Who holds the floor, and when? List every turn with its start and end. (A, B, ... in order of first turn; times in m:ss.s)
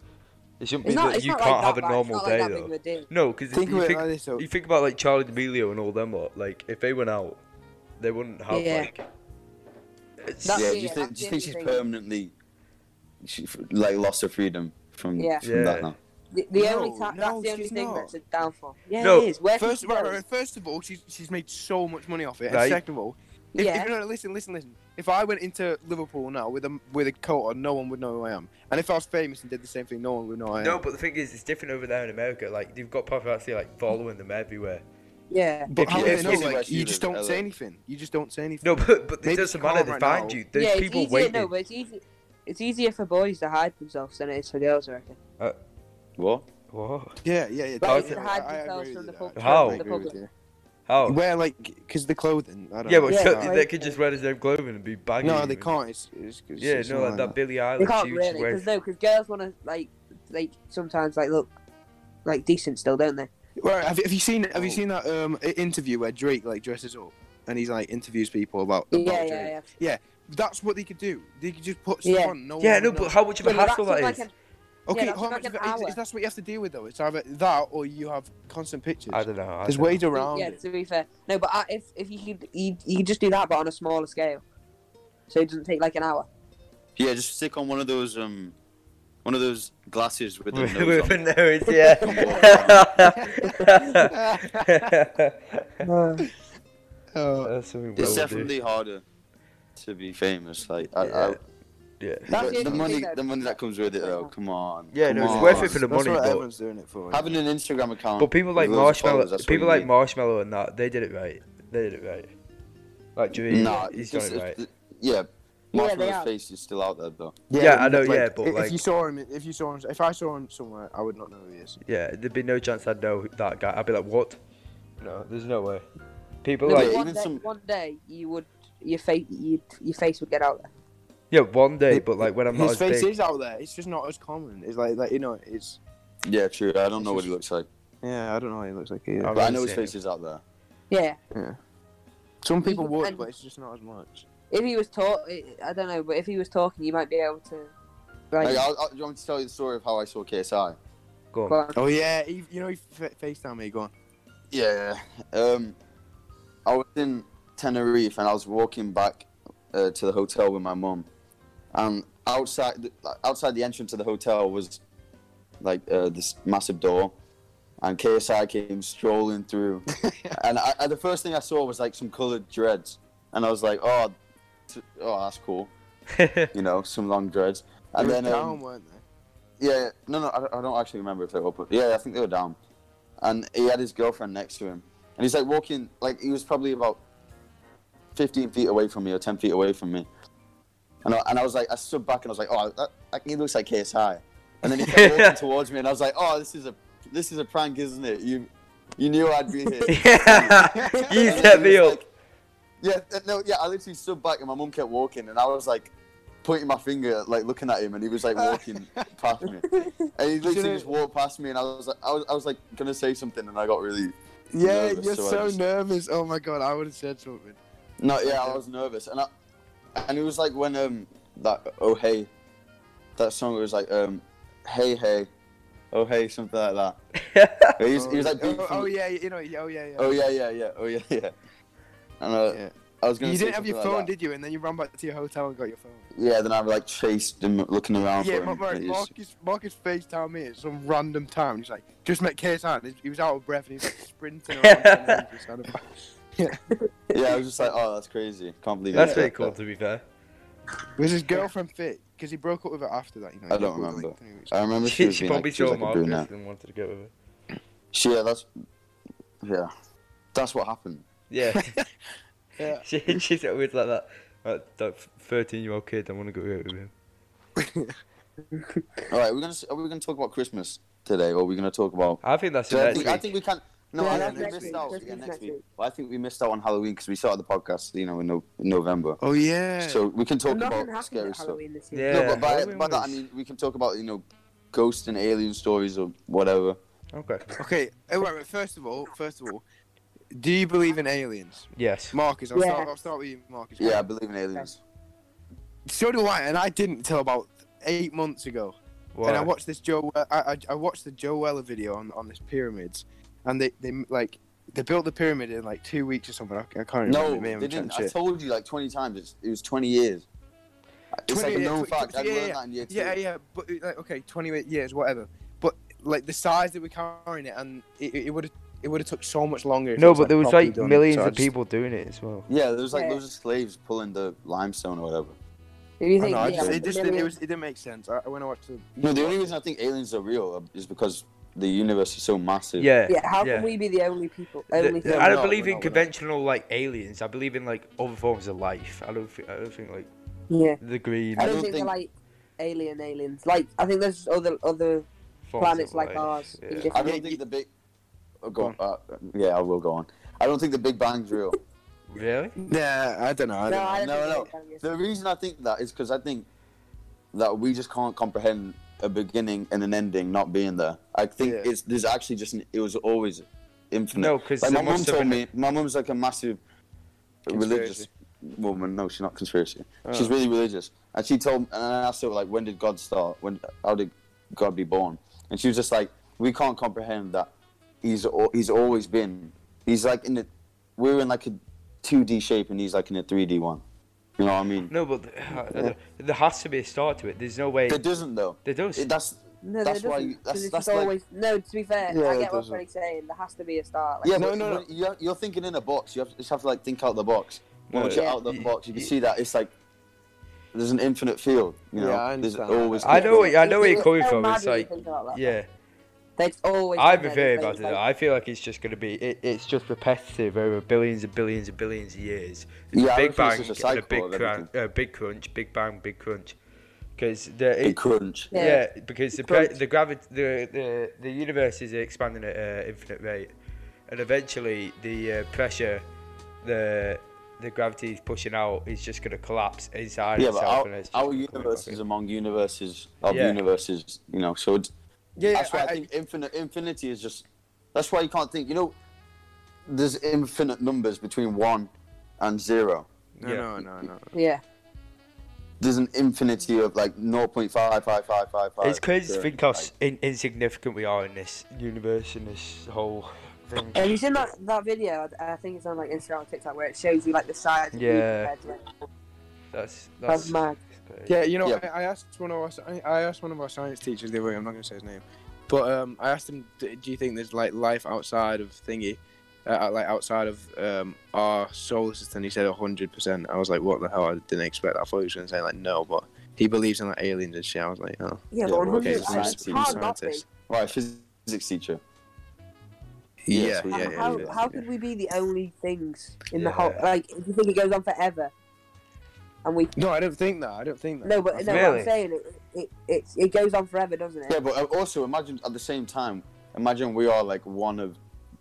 0:00.6-0:07.4 A
0:00.8-0:03.1 B
0:03.5-0:04.4 C
0:08.0-0:09.0 A
0:08.5-0:08.9 B
0:10.2-0:10.8 A
0:10.4-0:11.8 B
0:10.5-0:12.3 D
0:13.2-0:16.0 D
0:15.2-0:15.4 B
0:15.4-0:15.9 A
0:16.3-0:20.2 B
0:16.6-0:18.1 C
0:19.0-0:19.3 A
0:19.6-0:30.8 C
0:22.5-0:22.8 A
0:23.6-0:23.9 B
0:30.6-0:34.8 A
0:35.3-0:35.7 B
0:35.7-0:40.4 C
0:35.8-0:36.6 A
0:35.9-0:37.4 D
0:38.6-0:41.5 A
0:40.5-0:45.2 B
0:46.2-0:46.5 D
0:46.7-0:47.2 A
0:47.2-0:50.3 C
0:47.8-0:50.2 B
0:47.8-0:48.2 A
0:49.4-0:49.8 A
0:50.9-0:51.2 A
0:51.0-0:53.6 C
0:52.8-0:55.7 A
0:53.1-0:54.0 B
0:55.2-0:57.4 C
0:56.6-0:58.6 A
0:57.8-1:01.5 B
1:02.2-1:03.3 B
1:03.6-1:13.1 C
1:08.9-1:09.7 B
1:12.0-1:12.4 B
1:12.6-1:14.2 A
1:13.4-1:14.3 B
1:14.9-1:20.6 C
1:14.9-1:16.0 B
1:19.1-1:20.0 A
1:20.1-1:24.4 B
1:25.3-1:26.3 B
1:27.0-1:28.6 D
1:29.2-1:31.2 D
1:30.5-1:35.8 A
1:31.8-1:32.4 B
1:32.0-1:32.9 D
1:33.4-1:33.7 B
1:34.1-1:34.9 C
1:35.8-1:36.2 B
1:37.1-1:38.2 C
1:37.4-1:38.5 A
1:38.0-1:39.0 D
1:39.8-1:41.4 D
1:40.9-1:41.4 A
1:42.0-1:42.4 A
1:42.3-1:44.3 B
1:42.3-1:45.8 D
1:44.9-1:46.4 A
1:45.1-1:47.3 C
1:47.1-1:49.9 D
1:48.2-1:52.3 A
1:53.2-1:54.6 A
1:53.4-1:57.4 D
1:55.7-1:56.3 B
1:57.5-2:01.8 C
1:57.6-1:58.8 A
2:01.8-2:04.4 A
2:05.0-2:05.8 A
2:06.4-2:07.0 A
2:06.6-2:10.7 B
2:06.7-2:07.4 D
2:11.3-2:13.1 A
2:11.9-2:15.8 C
2:16.2-2:17.7 D
2:17.0-2:17.3 C
2:18.0-2:19.4 C
2:19.2-2:19.9 A
2:19.3-2:20.4 D
2:20.9-2:21.2 B
2:22.4-2:24.2 C
2:22.6-2:23.2 B
2:24.5-2:27.7 B
2:28.3-2:28.7 B
2:28.4-2:30.8 D
2:31.3-2:31.6 A
2:31.5-2:31.8 B
2:31.7-2:33.9 C
2:34.5-2:35.8 D
2:36.7-2:41.1 D
2:41.7-2:44.8 D
2:45.6-2:47.1 D
2:47.8-2:54.2 D
2:50.0-2:50.4 C
2:54.7-2:55.7 D
2:56.1-2:56.5 A
2:56.5-2:58.6 D
2:58.0-2:59.0 C
2:59.6-3:02.6 D
3:03.2-3:07.0 D
3:08.2-3:10.1 D
3:11.0-3:20.6 D
3:14.7-3:15.4 A
3:19.9-3:22.0 A
3:20.6-3:21.2 C
3:21.0-3:21.4 B
3:21.2-3:22.1 D
3:22.8-3:25.9 D
3:26.4-3:35.6 D
3:28.4-3:29.0 C
3:30.4-3:30.9 C
3:34.5-3:37.6 C
3:38.0-3:39.3 D
3:38.2-3:38.6 C
3:40.0-3:42.3 D
3:43.2-3:45.3 D
3:45.9-3:47.0 D
3:47.3-3:47.7 A
3:47.8-3:48.9 D
3:47.9-3:50.3 C
3:50.0-3:51.3 D
3:52.2-3:54.1 D
3:52.5-3:56.1 C
3:56.1-3:59.1 D
3:58.2-4:06.6 C
4:04.5-4:05.2 A
4:07.1-4:09.6 D
4:08.9-4:10.0 A
4:08.9-4:09.2 C
4:11.0-4:14.6 C
4:13.5-4:16.3 D
4:14.8-4:17.1 A
4:17.9-4:18.5 D
4:19.4-4:19.7 D
4:20.3-4:21.0 D
4:21.3-4:21.8 A
4:22.6-4:22.8 C
4:22.8-4:26.9 A
4:27.6-4:28.0 C
4:28.5-4:28.8 B
4:29.1-4:39.2 D
4:32.2-4:33.3 A
4:34.0-4:35.6 B
4:34.0-4:35.0 C
4:39.2-4:40.0 C
4:39.8-4:41.6 D
4:40.5-4:42.4 B
4:41.9-4:43.2 A
4:42.1-4:46.8 D
4:47.1-4:47.6 A
4:47.6-4:49.6 C
4:50.3-4:54.0 C
4:51.7-4:52.2 A
4:52.5-4:52.9 B
4:53.8-4:54.8 D
4:55.9-5:08.2 C
4:59.1-4:59.5 A
5:07.1-5:10.2 D
5:11.1-5:13.2 D
5:11.3-5:21.5 C
5:20.0-5:22.5 A
5:22.5-5:25.3 D
5:22.9-5:23.2 B
5:26.0-5:27.3 B
5:26.2-5:29.5 C
5:26.4-5:26.9 D
5:29.0-5:32.9 D
5:32.8-5:33.7 A
5:33.1-5:35.3 B
5:34.7-5:40.1 A
5:35.0-5:36.1 C
5:40.5-5:40.8 B
5:40.8-5:41.6 A
5:41.4-5:45.1 B
5:41.4-5:41.9 D
5:45.5-5:46.9 A
5:45.6-5:47.1 B
5:46.9-5:47.7 D
5:46.9-5:47.4 C
5:48.4-5:51.6 D
5:52.1-5:52.6 A
5:52.6-5:54.0 C
5:53.7-5:54.8 B
5:54.0-5:56.5 D
5:57.3-6:06.6 D
6:01.4-6:01.7 C
6:04.2-6:05.4 A
6:07.4-6:17.5 D
6:07.5-6:08.1 C
6:10.0-6:10.3 C
6:18.0-6:23.8 D
6:24.4-6:24.9 D
6:24.9-6:28.0 A
6:27.9-6:31.1 D
6:28.6-6:29.1 A
6:29.6-6:34.4 B
6:32.1-6:32.8 C
6:34.2-6:39.7 D
6:34.4-6:34.8 C
6:37.9-6:39.1 A
6:38.1-6:38.4 B
6:40.7-6:43.5 D
6:42.0-6:43.4 C
6:43.0-6:45.7 A
6:43.2-6:45.6 B
6:46.4-6:48.0 B
6:47.0-6:56.6 A
6:52.9-6:54.7 D
6:57.2-6:58.0 A
6:57.8-6:58.5 D
6:58.5-6:58.8 B
6:58.5-7:03.5 A
7:04.1-7:06.0 A
7:06.6-7:12.0 A
7:10.4-7:14.9 D
7:13.3-7:13.6 A
7:15.4-7:16.1 C
7:15.5-7:19.0 D
7:19.9-7:23.1 D
7:23.4-7:24.3 C
7:23.4-7:23.7 A
7:24.3-7:24.6 B
7:25.8-7:29.9 D
7:28.8-7:34.4 A
7:33.9-7:38.9 B
7:37.9-7:38.5 A
7:39.7-7:41.3 A
7:40.3-7:40.8 B
7:41.3-8:00.4 C
7:58.5-8:00.4 B
7:58.6-8:00.0 D
8:00.7-8:02.0 D
8:03.4-8:04.8 C
8:03.5-8:04.6 D
8:03.9-8:08.5 B
8:06.6-8:07.0 A
8:09.6-8:09.9 B
8:10.0-8:11.9 C
8:11.2-8:14.6 B
8:11.7-8:12.1 A
8:14.5-8:18.2 D